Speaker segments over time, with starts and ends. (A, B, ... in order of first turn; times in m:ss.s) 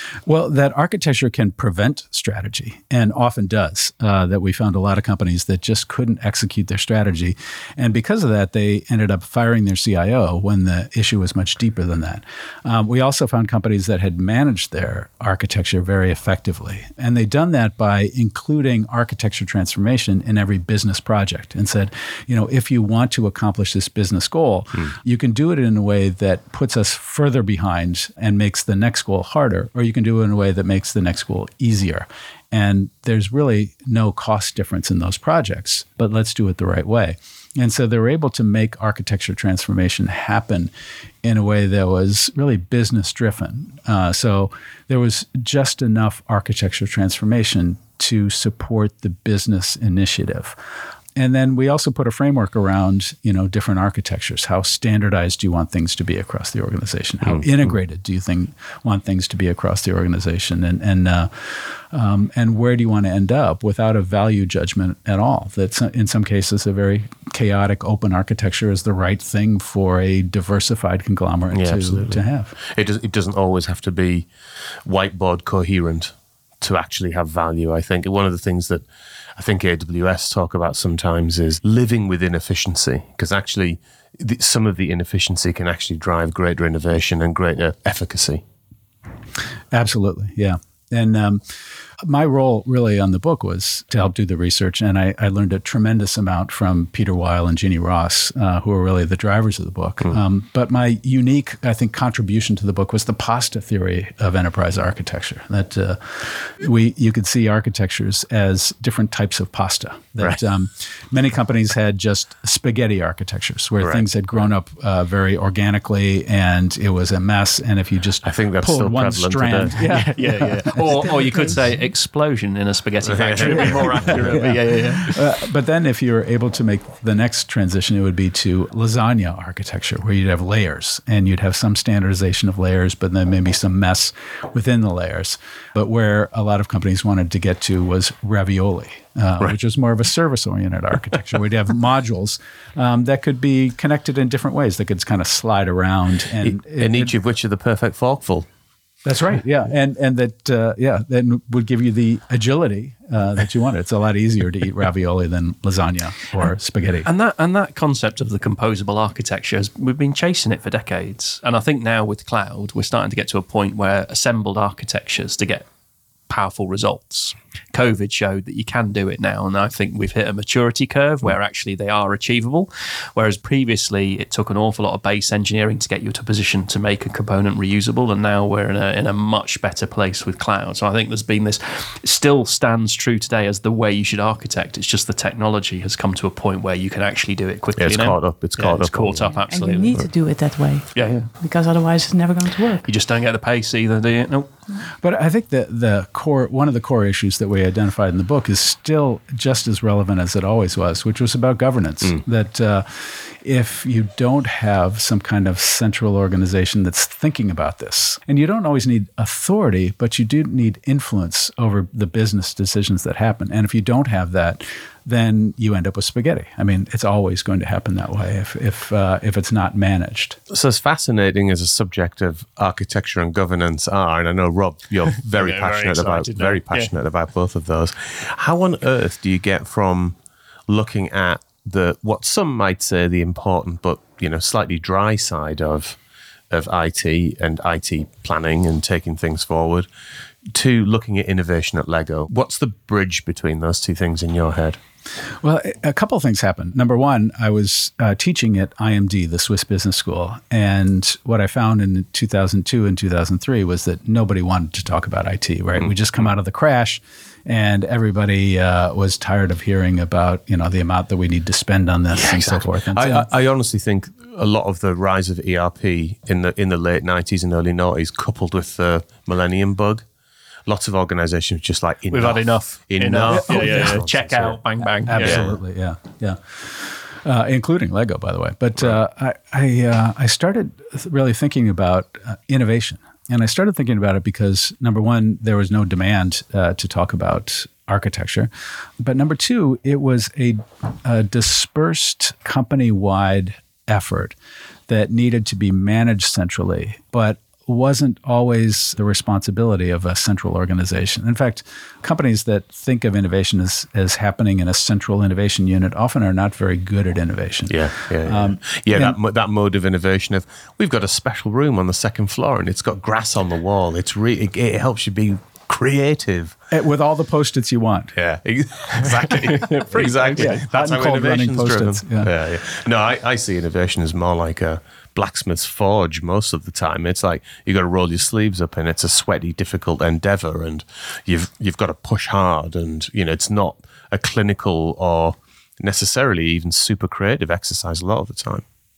0:00.2-0:40.7 A
0:41.2-0:50.6 A
0:51.2-1:12.5 A
1:11.5-1:14.3 B
1:14.8-1:28.4 B
1:29.7-1:31.4 A
1:32.0-2:01.6 A
1:58.2-2:00.0 B
1:59.8-2:05.2 C
2:03.0-2:04.4 B
2:03.4-2:27.1 A
2:26.4-2:28.5 B
2:29.0-2:37.1 A
2:37.0-2:45.7 C
2:46.3-3:10.0 C
3:07.8-3:09.3 B
3:09.5-3:12.8 D
3:10.9-3:11.3 C
3:12.8-3:14.5 C
3:15.0-3:40.4 A
3:40.5-3:50.2 B
3:45.2-3:46.9 C
3:50.7-3:56.0 B
3:56.5-3:59.9 B
4:00.5-4:04.8 B
4:05.4-4:23.3 A
4:22.1-4:30.0 B
4:30.6-4:34.6 B
4:32.1-4:35.5 C
4:33.3-4:34.3 A
4:35.0-4:54.4 A
4:35.2-4:35.6 B
4:54.9-5:09.2 A
5:07.7-5:16.5 B
5:16.7-5:18.1 A
5:18.1-5:38.6 B
5:19.3-5:20.6 C
5:20.4-5:22.3 A